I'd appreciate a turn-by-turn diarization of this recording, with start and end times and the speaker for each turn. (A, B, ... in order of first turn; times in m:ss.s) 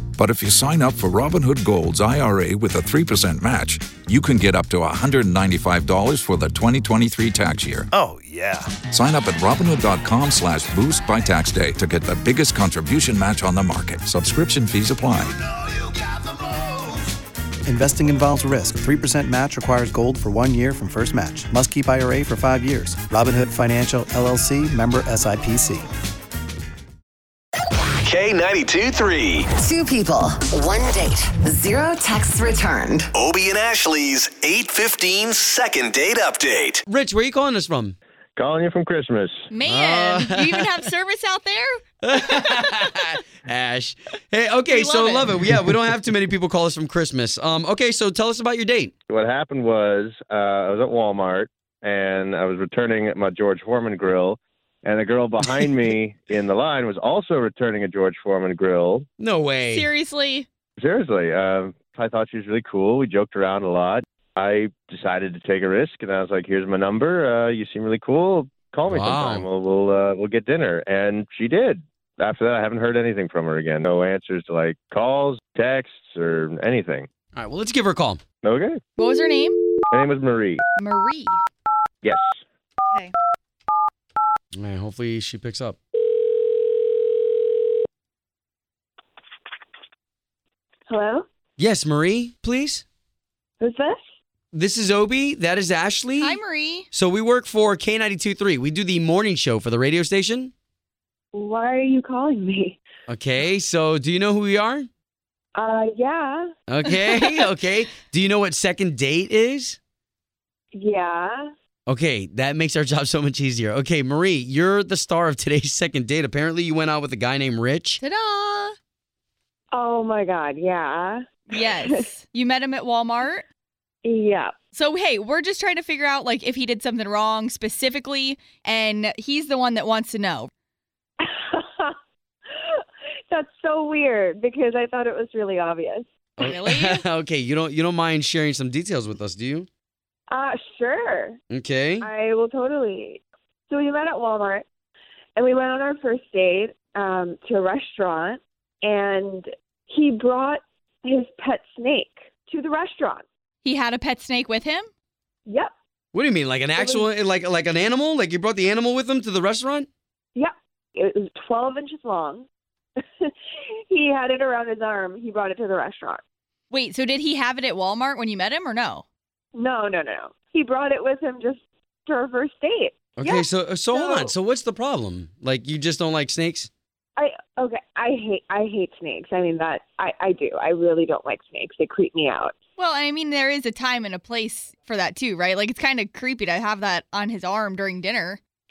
0:00.2-0:07.9 A
0:07.9-0:08.8 B
0:08.8-0:15.4 A
0:17.6-0:25.9 B
0:28.0-0:29.6 C
0:29.6-0:33.1 D
0:33.1-0:36.8 C
0:36.9-0:38.0 E
0:38.4-0:39.5 F
0:39.5-0:41.8 G
0:39.6-0:40.9 E
0:42.0-0:48.9 E
0:44.7-0:45.4 G
0:49.1-0:59.1 F
0:59.2-0:59.9 E
0:59.6-1:00.5 G
1:00.8-1:17.1 F
1:08.9-1:09.4 E
1:17.3-1:18.2 E
1:18.4-1:18.8 F
1:19.0-1:19.6 G
1:19.9-1:20.6 F
1:20.8-1:21.4 G
1:22.0-1:22.4 F
1:24.6-1:25.8 E
1:30.9-1:31.2 H
1:31.6-1:32.8 E
1:33.6-1:34.0 H
1:34.5-1:36.4 E
1:36.2-1:36.9 G
1:36.9-1:40.5 E
1:41.3-1:42.8 H
1:43.1-1:44.9 E
1:45.5-1:46.5 H
1:46.7-1:49.8 E
1:50.7-1:51.5 H
1:51.9-1:58.0 E
1:58.0-1:58.7 G
1:59.7-2:02.1 H
2:01.5-2:03.4 G
2:04.0-2:04.6 H
2:04.7-2:10.5 G
2:11.2-2:11.9 H
2:12.5-2:16.1 H
2:16.4-2:19.7 E
2:16.4-2:17.0 G
2:20.3-2:21.4 H
2:21.5-2:22.1 E
2:22.0-2:24.6 H
2:25.4-2:33.2 H
2:33.6-2:34.9 G
2:35.4-2:35.7 H
2:36.1-2:39.9 E
2:36.8-2:37.1 H
2:40.3-2:42.4 H
2:43.0-2:43.3 H
2:43.9-2:46.2 H
2:46.7-2:49.0 G
2:49.5-2:54.3 H
2:53.2-2:56.7 E
2:57.2-3:02.5 H
3:02.8-3:08.4 G